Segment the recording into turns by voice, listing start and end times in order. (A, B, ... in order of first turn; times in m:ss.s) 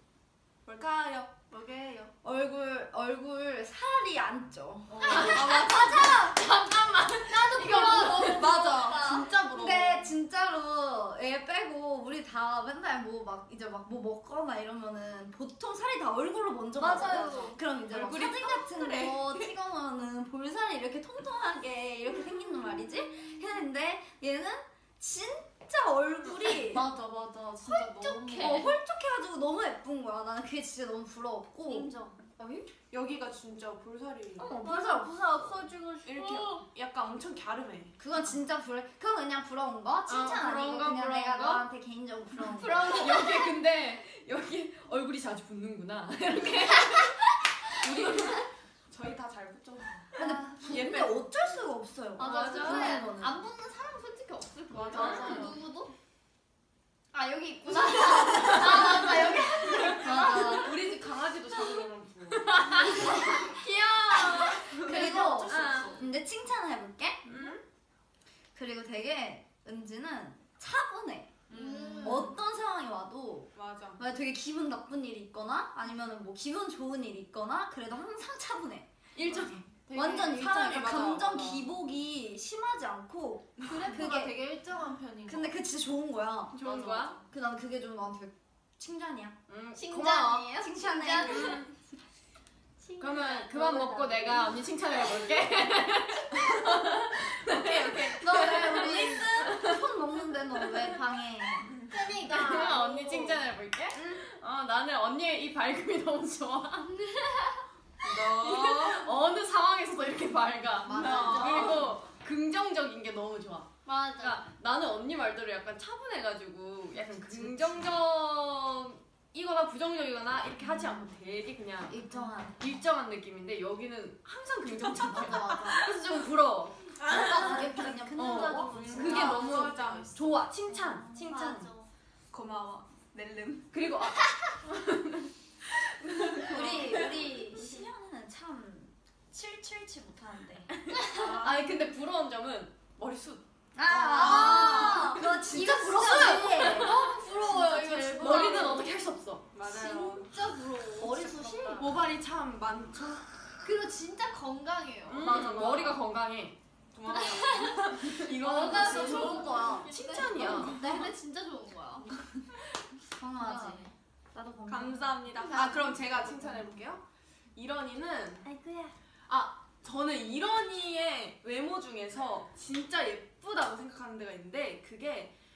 0:00.6-0:02.0 A
0:01.5-0:02.1 B
0:02.2-0:06.4 C
0:05.0-0:05.4 D
0:05.0-0:08.7 E
0:05.0-0:05.6 A
0:07.3-0:09.3 D
0:08.3-0:10.1 A
0:09.5-0:26.9 C
0:16.8-0:17.5 B
0:16.8-0:17.6 D
0:17.9-0:19.5 A
0:26.7-0:28.6 B
0:27.6-0:28.7 D
0:28.4-0:31.9 C
0:31.7-0:32.2 B
0:32.9-0:34.5 A
0:34.4-0:35.2 C
0:34.4-0:36.3 B
0:36.0-0:38.0 A
0:38.0-0:43.0 C
0:40.1-0:41.6 E
0:42.4-0:43.5 D
0:42.7-0:48.4 E
0:47.8-0:51.1 A
0:50.2-0:53.4 C
0:52.2-0:55.9 D
0:52.2-0:52.9 E
0:54.7-0:55.5 A
0:54.9-0:55.4 E
0:54.9-0:55.5 B
0:55.0-0:55.4 C
0:57.1-1:00.7 D
0:59.0-1:03.1 A
1:00.0-1:00.7 C
1:02.5-1:03.2 E
1:02.8-1:05.8 D
1:04.4-1:06.0 A
1:04.7-1:07.3 C
1:04.9-1:05.6 B
1:05.5-1:06.0 E
1:07.2-1:07.6 A
1:08.5-1:11.4 C
1:11.5-1:12.2 E
1:11.5-1:12.3 D
1:11.7-1:12.2 A
1:12.0-1:24.4 C
1:13.5-1:14.0 A
1:19.2-1:19.4 E
1:19.3-1:21.7 A
1:23.6-1:25.5 B
1:25.2-1:26.6 C
1:26.6-1:27.2 E
1:26.6-1:27.1 A
1:27.3-1:29.3 C
1:29.5-1:30.6 E
1:29.7-1:31.7 D
1:30.6-1:31.7 C
1:31.1-1:31.7 E
1:32.8-1:35.0 D
1:33.0-1:39.8 E
1:37.4-1:39.2 A
1:38.2-1:41.7 C
1:40.6-1:40.9 E
1:41.6-1:42.7 A
1:41.9-1:43.4 D
1:42.2-1:46.9 E
1:43.9-1:44.2 A
1:47.0-1:47.6 D
1:48.0-1:49.1 A
1:48.0-2:07.6 E
1:50.8-1:51.9 C
1:50.9-1:51.9 A
1:53.8-1:54.4 D
1:57.0-1:57.9 A
2:01.9-2:02.7 C
2:04.9-2:05.9 A
2:05.1-2:05.8 C
2:07.0-2:10.2 A
2:07.1-2:09.7 C
2:07.2-2:10.1 B
2:08.1-2:11.7 E
2:11.1-2:11.9 D
2:12.3-2:13.8 A
2:13.7-2:15.3 E
2:15.6-2:17.2 A
2:16.3-2:16.6 E
2:16.5-2:20.7 C
2:20.9-2:21.2 D
2:21.0-2:21.7 A
2:21.1-2:23.4 E
2:23.7-2:27.0 C
2:23.9-2:28.8 D
2:24.0-2:25.2 A
2:25.5-2:29.4 E
2:27.6-2:28.7 C
2:29.5-2:30.3 A
2:29.6-2:31.9 D
2:31.0-2:31.9 C
2:31.7-2:33.4 A
2:33.6-2:35.6 D
2:35.0-2:36.0 A
2:35.2-2:36.5 E
2:36.9-2:41.1 A
2:37.1-2:42.1 D
2:38.6-2:39.8 B
2:40.2-2:40.7 E
2:40.8-2:41.1 C
2:43.2-2:45.8 C
2:43.4-2:43.9 D
2:44.7-2:47.0 A
2:45.4-2:46.0 D
2:47.5-2:48.4 A
2:49.3-2:55.3 A